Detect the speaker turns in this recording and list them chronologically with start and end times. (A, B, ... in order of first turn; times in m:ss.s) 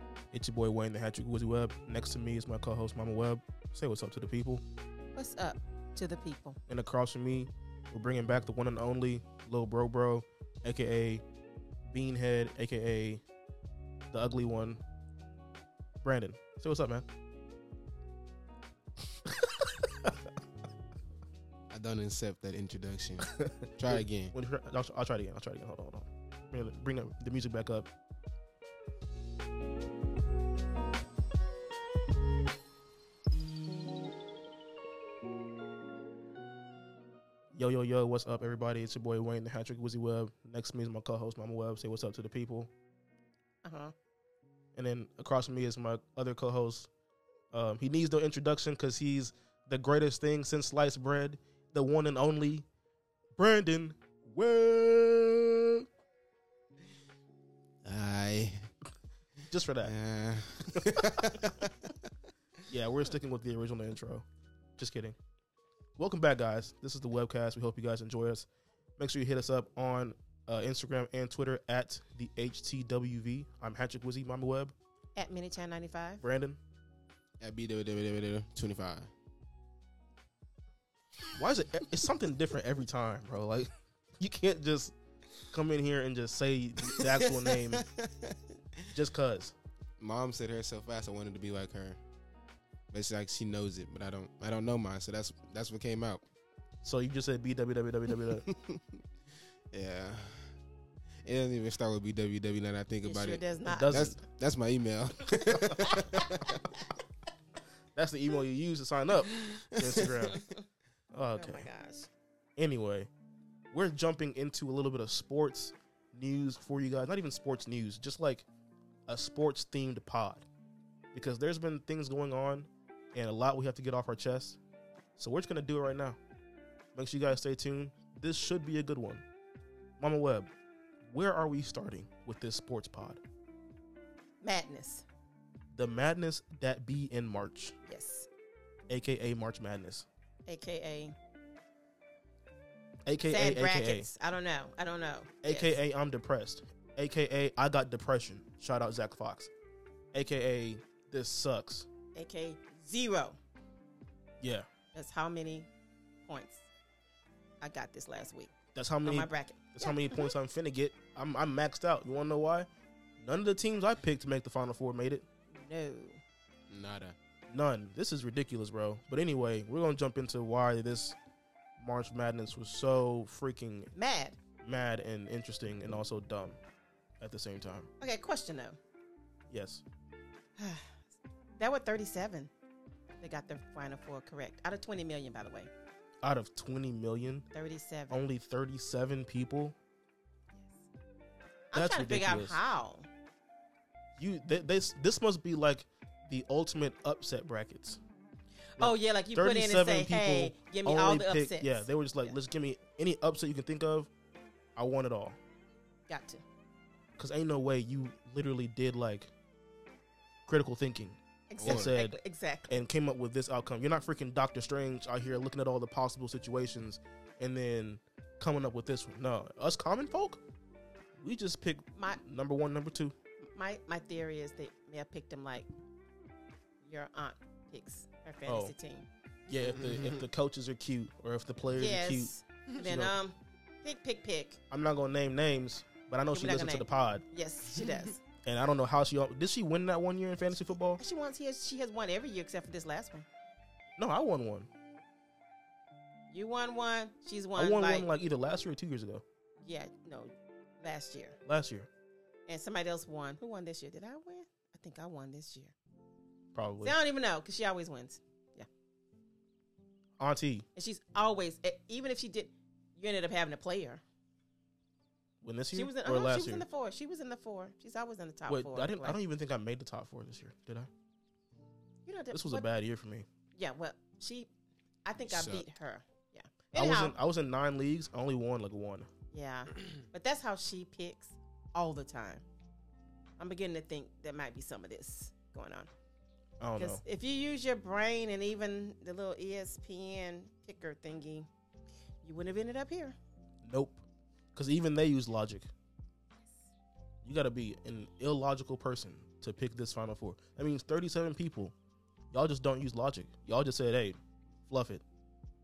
0:00.3-0:04.6 A
0:05.1-0:06.6 B
0:06.7-0:11.2 A
0:11.9-0:13.2 A
0:14.1-0:14.8 A
0:16.0-0:17.0 A
0:19.3-0:20.1 A
0:21.7-0:24.3 C
0:23.3-0:27.9 A
0:37.5-0:42.7 A
0:43.6-0:43.9 B
0:44.8-0:46.9 A
0:47.5-0:52.6 A
0:53.4-0:55.8 A
0:57.8-0:58.7 C
0:59.5-0:59.9 A
0:59.8-1:02.0 C
1:00.7-1:01.2 A
1:02.7-1:04.2 A
1:04.8-1:05.1 A
1:06.0-1:08.4 A
1:09.0-1:14.7 A
1:15.2-1:16.2 B
1:16.2-1:16.6 A
1:17.4-1:19.1 C
1:21.3-1:24.9 A
1:25.5-1:27.8 A
1:26.9-1:28.9 C
1:28.9-1:29.5 A
1:30.0-1:32.0 C
1:32.9-1:36.2 C
1:36.8-1:38.5 A
1:38.1-1:39.0 C
1:39.7-1:40.5 C
1:41.2-1:46.6 C
1:43.0-1:44.1 B
1:43.6-1:44.2 A
1:48.0-1:50.4 A
1:49.3-1:50.4 C
1:50.3-1:50.6 B
1:51.1-1:51.7 A
1:51.4-1:52.1 B
1:52.6-1:53.1 A
1:53.7-1:58.4 A
1:59.1-2:00.4 A
2:01.1-2:04.6 A
2:05.2-2:06.2 A
2:06.9-2:09.2 A
2:10.0-2:10.5 A
2:11.1-2:13.2 A
2:14.4-2:15.0 B
2:15.7-2:17.7 A
2:17.8-2:18.3 B
2:18.9-2:20.0 A
2:20.5-2:21.1 B
2:23.0-2:24.1 A
2:23.3-2:25.8 B
2:25.4-2:29.5 A
2:30.1-2:31.9 A
2:32.1-2:33.4 B
2:34.4-2:34.7 A
2:34.9-2:35.7 B
2:36.2-2:36.6 B
2:37.6-2:38.5 B
2:38.7-2:42.7 A
2:39.0-2:40.3 B
2:43.2-2:45.2 A
2:45.5-2:46.2 B
2:46.7-2:47.2 C
2:47.5-2:51.2 A
2:51.8-2:53.9 A
2:53.9-2:54.4 B
2:54.6-2:56.6 A
2:57.2-2:57.9 A
2:58.0-2:58.8 B
2:59.5-2:59.8 A
3:00.6-3:01.0 B
3:01.6-3:02.5 B
3:03.2-3:05.7 B
3:06.2-3:07.5 A
3:07.5-3:08.2 B
3:08.1-3:09.7 A
3:11.7-3:13.1 B
3:11.7-3:12.6 A
3:14.2-3:18.0 A
3:18.8-3:22.4 B
3:18.8-3:24.1 A
3:24.8-3:25.4 A
3:26.1-3:26.4 B
3:27.2-3:29.3 A
3:30.5-3:32.2 A
3:31.5-3:32.8 B
3:31.6-3:31.9 C
3:32.7-3:40.4 A
3:41.2-3:43.1 A
3:41.9-3:42.2 B
3:43.4-3:45.7 B
3:46.8-3:49.1 B
3:48.4-3:48.7 A
3:49.5-3:53.1 A
3:49.7-3:50.2 C
3:51.8-3:54.6 B
3:54.7-3:57.2 A
3:56.3-3:58.2 B
3:58.4-4:01.0 A
4:01.0-4:03.2 B
4:04.0-4:04.7 A
4:06.3-4:08.1 B
4:07.6-4:09.2 A
4:09.6-4:11.4 B
4:11.4-4:11.9 A
4:12.5-4:15.7 B
4:16.5-4:16.9 A
4:16.8-4:18.7 B
4:20.2-4:20.6 A
4:20.8-4:24.0 B
4:25.4-4:26.6 A
4:25.7-4:29.2 B
4:28.5-4:30.9 A
4:32.0-4:32.7 B
4:32.3-4:33.2 A
4:33.6-4:34.5 B
4:35.0-4:37.2 B
4:35.2-4:35.7 C
4:36.7-4:39.1 A
4:39.3-4:42.4 B
4:43.4-4:45.9 B
4:46.6-4:47.0 A
4:46.8-4:51.5 B
4:52.2-4:53.2 B
4:53.6-4:54.0 A
4:54.5-4:55.7 A
4:57.2-5:01.7 A
5:02.3-5:05.0 A